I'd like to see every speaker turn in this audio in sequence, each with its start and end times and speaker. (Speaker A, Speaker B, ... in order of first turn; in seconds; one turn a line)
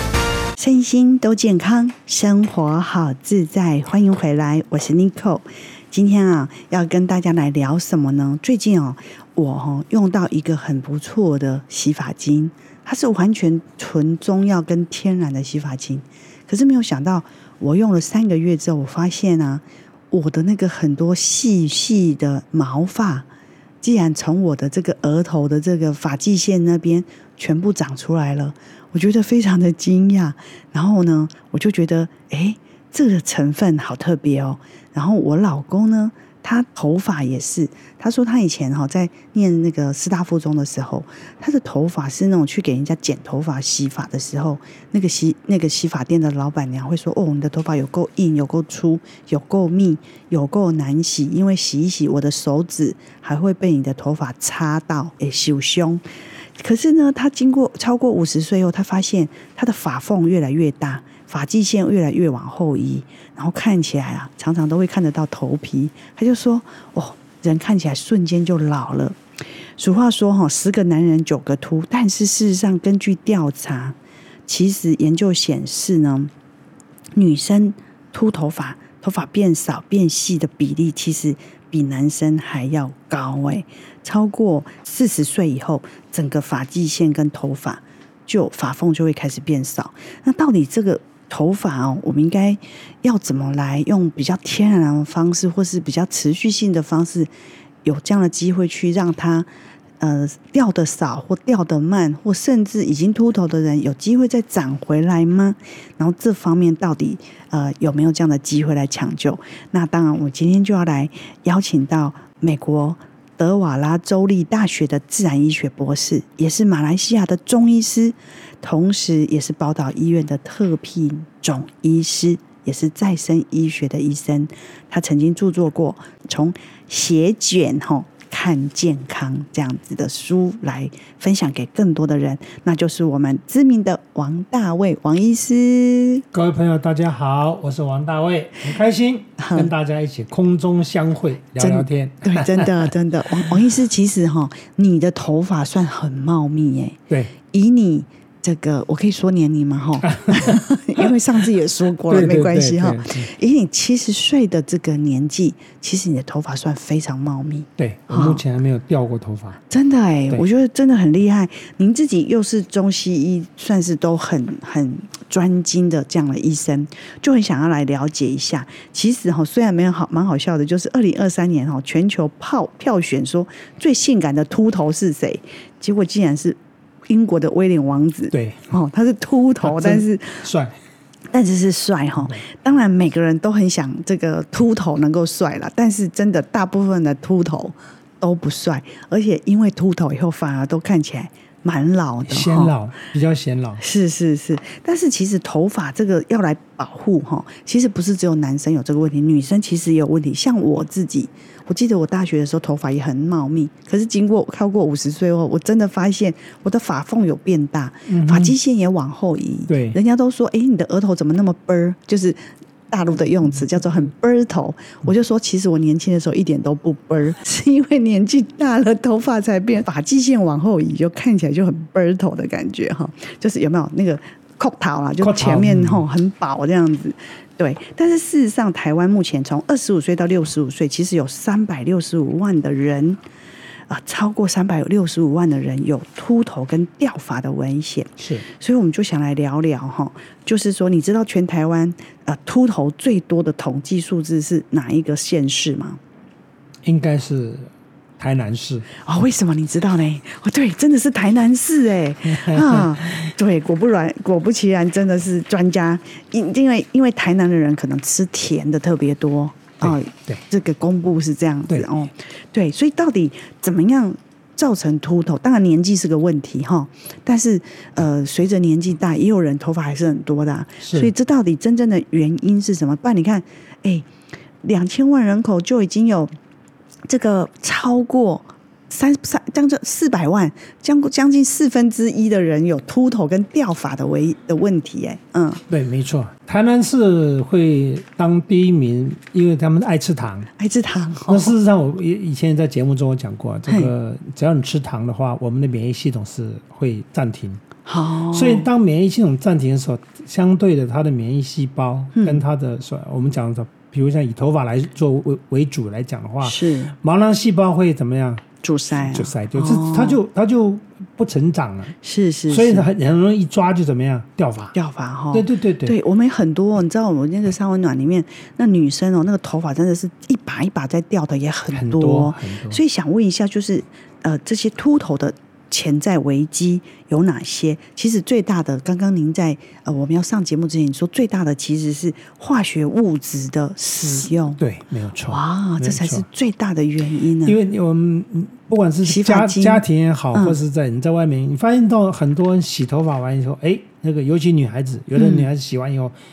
Speaker A: 0.6-23.3
Speaker A: 23.8-56.0
Speaker A: 56.6-69.2
Speaker A: 69.8-76.3
Speaker A: 77.2-97.3
Speaker A: 97.8-99.5
Speaker A: 100.0-136.2
Speaker B: 136.3-142.9
Speaker A: 139.4-139.7
Speaker A: 141.6-158.4
Speaker B: 150.0-151.1
Speaker B: 152.1-153.3
Speaker B: 157.8-159.6
Speaker A: 159.7-180.5
Speaker B: 178.3-178.7
Speaker B: 179.6-180.7
Speaker A: 181.3-192.7
Speaker B: 192.2-193.8
Speaker A: 193.8-212.4
Speaker B: 208.1-208.6
Speaker B: 209.7-210.0
Speaker A: 212.9-233.2
Speaker B: 225.2-226.1
Speaker A: 233.9-246.0
Speaker B: 238.2-238.4
Speaker B: 246.8-247.7
Speaker B: 248.2-248.9
Speaker A: 249.0-274.1
Speaker B: 252.2-253.3
Speaker B: 259.8-260.4
Speaker B: 270.8-271.1
Speaker A: 274.6-276.3
Speaker A: 277.1-285.6
Speaker B: 285.7-290.5
Speaker A: 290.6-291.6
Speaker B: 291.3-297.6
Speaker A: 297.9-298.7
Speaker B: 298.3-308.4
Speaker A: 302.1-302.4
Speaker A: 306.4-306.9
Speaker A: 308.6-310.2
Speaker B: 309.0-311.9
Speaker A: 312.0-312.9
Speaker B: 312.5-314.7
Speaker A: 314.7-334.6
Speaker B: 315.3-316.0
Speaker B: 321.7-322.8
Speaker B: 334.2-336.2
Speaker A: 335.3-337.6
Speaker B: 337.4-346.1
Speaker A: 339.0-340.6
Speaker A: 345.1-345.5